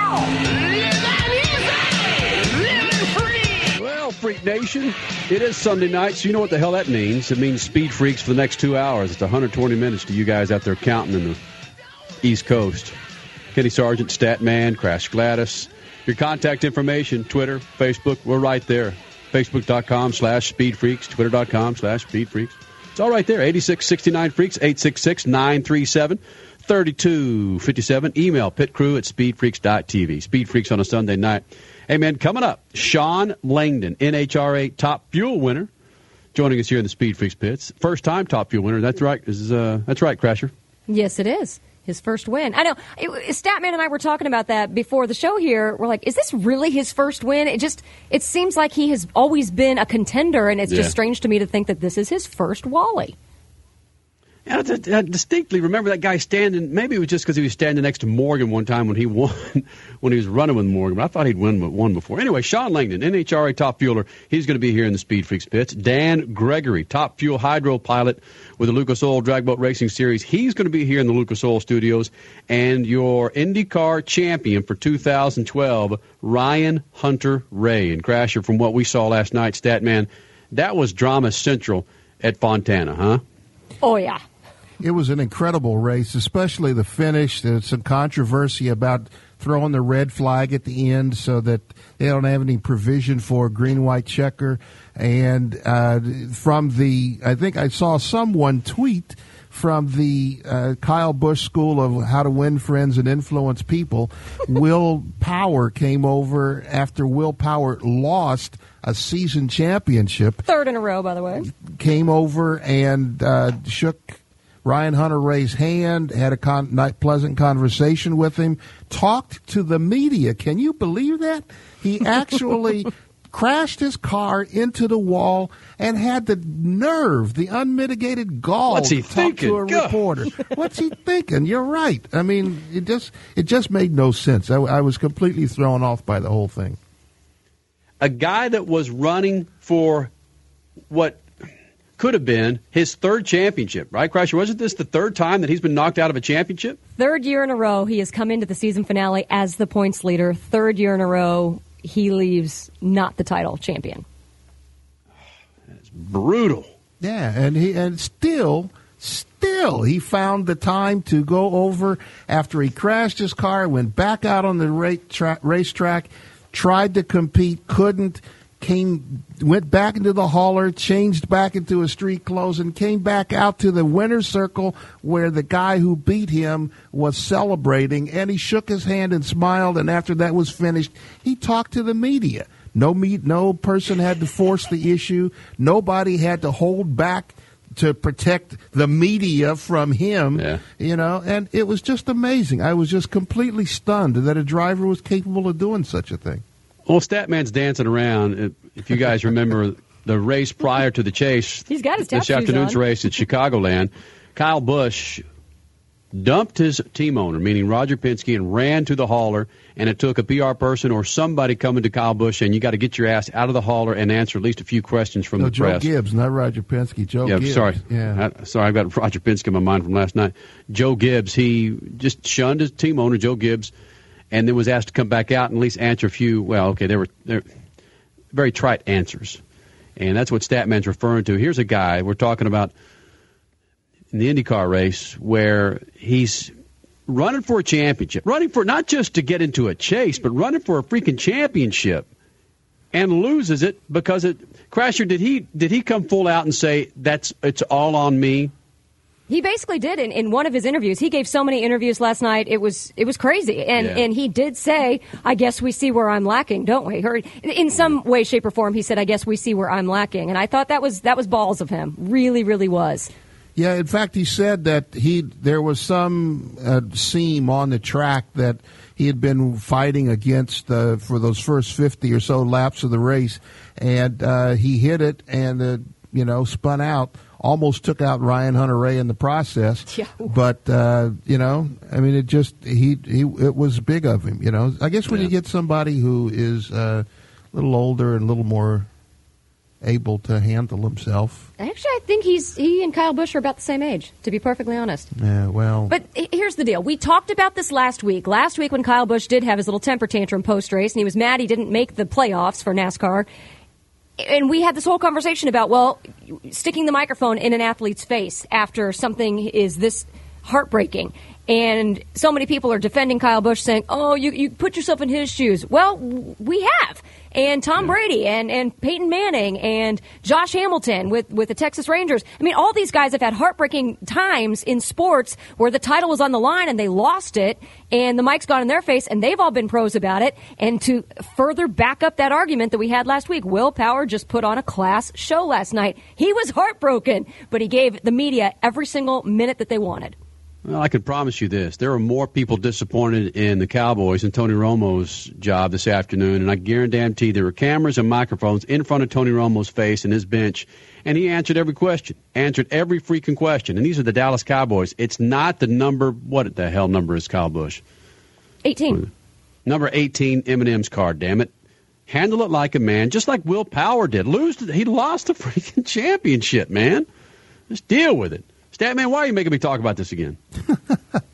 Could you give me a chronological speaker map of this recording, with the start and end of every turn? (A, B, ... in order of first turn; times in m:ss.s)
0:03.7-0:11.4 A
0:12.2-0:13.0 A
0:13.5-0:35.7 A
0:36.3-0:40.5 A
0:40.9-0:53.2 B
0:50.7-0:50.9 A
0:54.5-1:23.2 A
1:23.8-1:24.2 B
1:24.8-1:50.4 C
1:50.4-1:51.5 B
1:51.4-2:16.8 C
2:08.7-2:10.0 A
2:18.0-2:20.1 A
2:20.9-2:21.2 A
2:22.0-2:26.8 A
2:27.0-2:34.0 B
2:35.9-2:36.7 A
2:37.0-3:16.4 C
3:10.4-3:10.6 A
3:16.9-3:25.2 A
3:21.7-3:22.8 B
3:26.1-3:35.9 A
3:35.4-3:38.2 C
3:37.2-3:43.7 A
3:44.3-3:47.4 A
3:48.3-3:49.4 A
3:50.0-3:52.7 A
3:54.1-3:56.5 A
3:57.1-4:02.1 A
4:02.9-4:08.5 A
4:09.3-4:23.1 B
4:13.8-4:14.0 A
4:23.6-4:48.9 C
4:39.9-4:40.3 B
4:49.8-4:51.5 C
4:51.6-4:55.1 B
4:55.2-4:55.9 C
4:55.9-5:03.3 B
5:04.2-5:40.2 B
5:40.6-5:57.8 A
5:58.6-5:59.0 B
5:59.7-6:01.5 A
6:02.1-6:07.1 A
6:07.7-6:10.4 A